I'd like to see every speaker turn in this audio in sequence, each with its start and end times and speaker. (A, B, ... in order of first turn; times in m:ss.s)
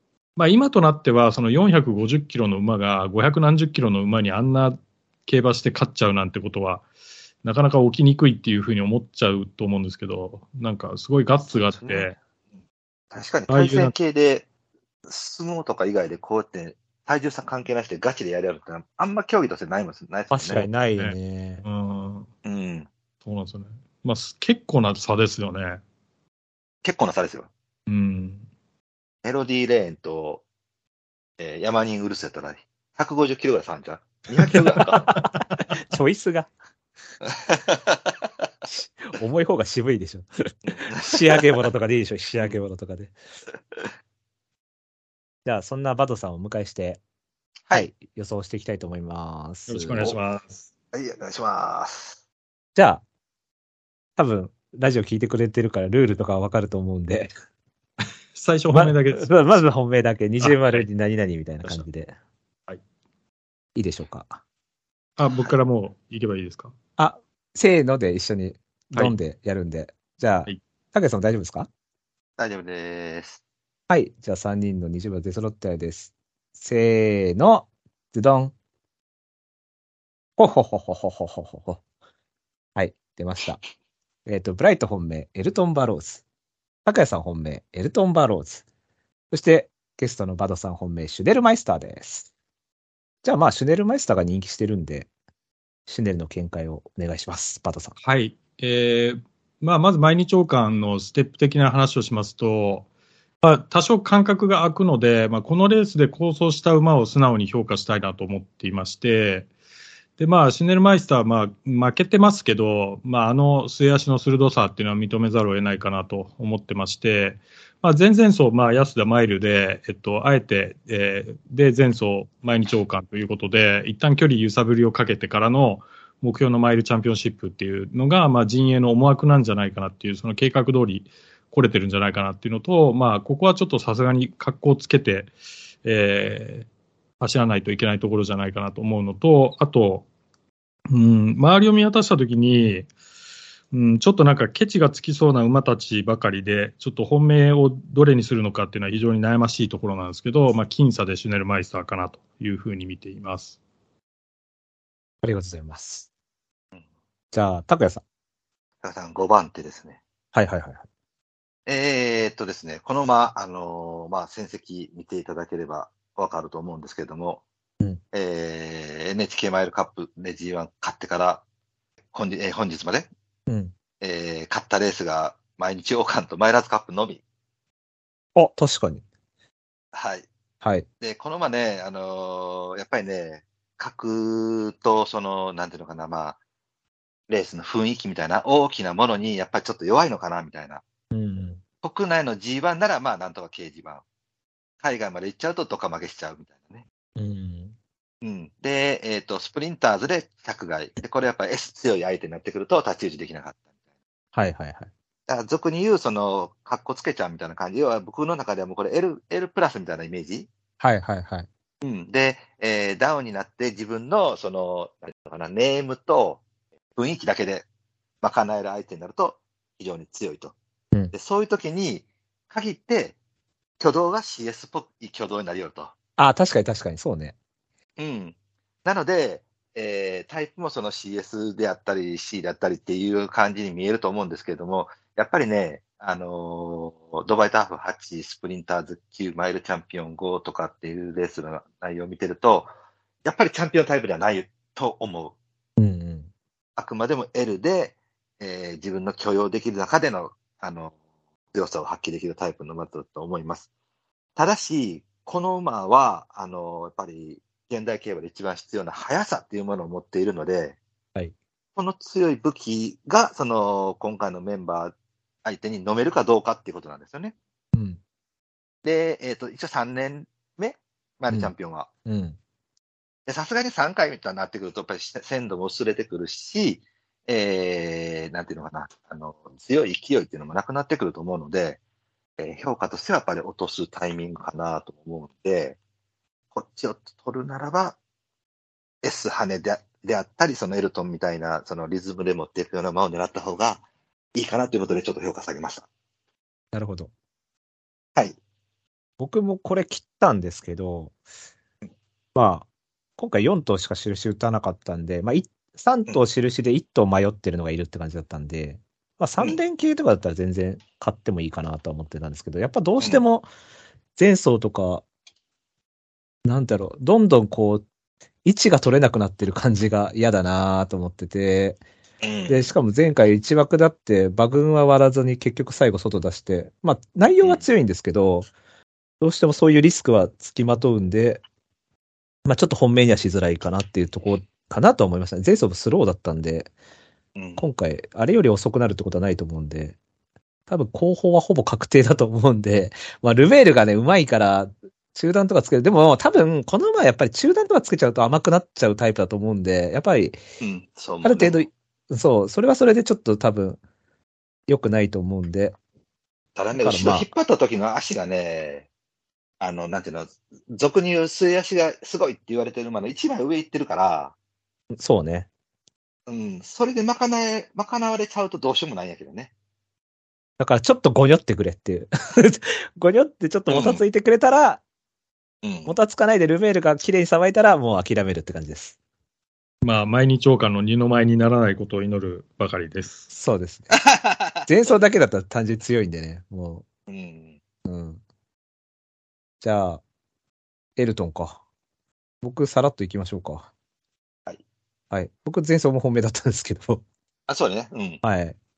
0:00.4-0:06.8 A
0:07.4-0:12.2 A
0:11.5-0:12.1 B
0:13.1-0:14.5 B
0:13.5-0:13.9 A
0:15.1-0:20.7 B
0:20.3-0:21.6 C
0:21.0-0:22.3 A
0:22.4-0:22.9 B
0:23.2-0:25.8 A
0:26.8-0:27.5 B
0:27.9-0:28.4 A
0:29.2-0:30.4 B
0:31.4-0:35.1 B
0:34.5-0:35.2 A
0:35.0-0:35.2 C
0:35.8-0:36.5 C
0:37.3-0:38.0 B
0:38.7-0:43.1 C
0:40.6-0:41.4 B
0:45.4-0:47.0 C
0:47.7-0:50.1 C
0:49.7-0:50.7 A
0:50.9-0:52.2 B
0:52.8-0:53.0 C
0:54.2-0:57.3 C
0:58.3-0:59.3 A
0:58.7-1:02.1 C
1:00.4-1:00.8 A
1:03.8-1:04.4 C
1:05.2-1:06.7 A
1:07.0-1:11.7 C
1:12.4-1:13.4 B
1:13.9-1:18.5 C
1:20.4-1:21.8 C
1:22.8-1:23.6 C
1:24.2-1:26.2 C
1:26.8-1:28.6 C
1:29.3-1:32.3 C
1:33.2-1:35.1 C
1:35.9-1:37.9 C
1:38.0-1:42.8 A
1:43.4-1:49.5 A
1:50.2-2:15.3 A
2:15.8-2:16.6 A
2:17.2-2:20.0 A
2:20.9-2:22.9 A
2:23.7-2:33.6 A
2:35.2-2:36.1 C
2:37.3-2:38.0 C
2:38.8-2:40.0 B
2:40.3-2:40.8 C
2:41.6-2:47.4 B
2:48.1-2:51.4 B
2:52.1-2:53.1 B
2:53.5-2:53.7 C
2:54.0-2:57.2 B
2:58.4-2:59.0 C
2:59.9-3:00.3 B
3:01.0-3:06.4 B
3:07.3-3:10.8 B
3:11.1-3:11.6 C
3:11.8-3:14.0 B
3:14.8-3:16.8 B
3:17.2-3:17.7 C
3:18.2-3:23.6 B
3:24.3-3:24.9 C
3:25.3-3:30.5 B
3:30.8-3:31.5 C
3:31.8-3:36.4 B
3:37.0-3:37.6 B
3:38.2-3:40.5 B
3:41.1-3:43.2 B
3:43.8-3:45.9 B
3:46.2-3:47.3 C
3:48.0-4:02.7 B
4:03.2-4:05.3 B
4:05.8-4:06.3 C
4:06.8-4:10.9 B
4:11.5-4:13.7 B
4:14.4-4:20.8 B
4:21.8-4:27.3 B
4:27.7-4:28.0 C
4:28.8-4:31.9 B
4:32.0-4:32.4 C
4:33.3-4:41.8 B
4:42.4-4:45.8 B
4:46.5-4:48.0 B
4:49.0-4:53.8 B
4:54.3-4:55.9 B
4:56.7-4:57.1 C
4:59.2-5:01.1 C
5:02.3-5:02.7 C
5:03.2-5:13.4 C
5:14.2-5:15.0 C
5:16.4-5:17.8 C
5:18.4-5:21.8 C
5:22.2-5:22.7 B
5:22.5-5:28.5 C
5:29.2-5:31.4 C
5:32.4-5:36.7 C
5:37.4-5:37.7 B
5:37.6-5:40.0 C
5:40.7-5:50.4 C
5:50.6-5:51.6 B
5:51.2-5:53.8 C
5:54.7-5:55.8 C
5:56.6-5:58.8 B
5:56.8-5:57.3 C
5:59.6-6:04.3 B
6:04.9-6:05.5 C
6:06.3-6:09.5 B
6:10.6-6:14.8 C
6:13.7-6:14.0 B
6:15.6-6:16.0 B
6:15.9-6:18.9 C
6:19.8-6:23.2 A
6:23.3-6:24.0 C
6:23.9-6:24.7 B
6:24.6-6:26.8 C
6:27.1-6:27.6 B
6:27.8-6:28.2 C
6:29.6-6:30.0 C
6:31.0-6:31.6 C
6:32.4-6:33.7 C
6:35.1-6:37.0 C
6:37.5-6:38.2 B
6:38.2-6:38.6 C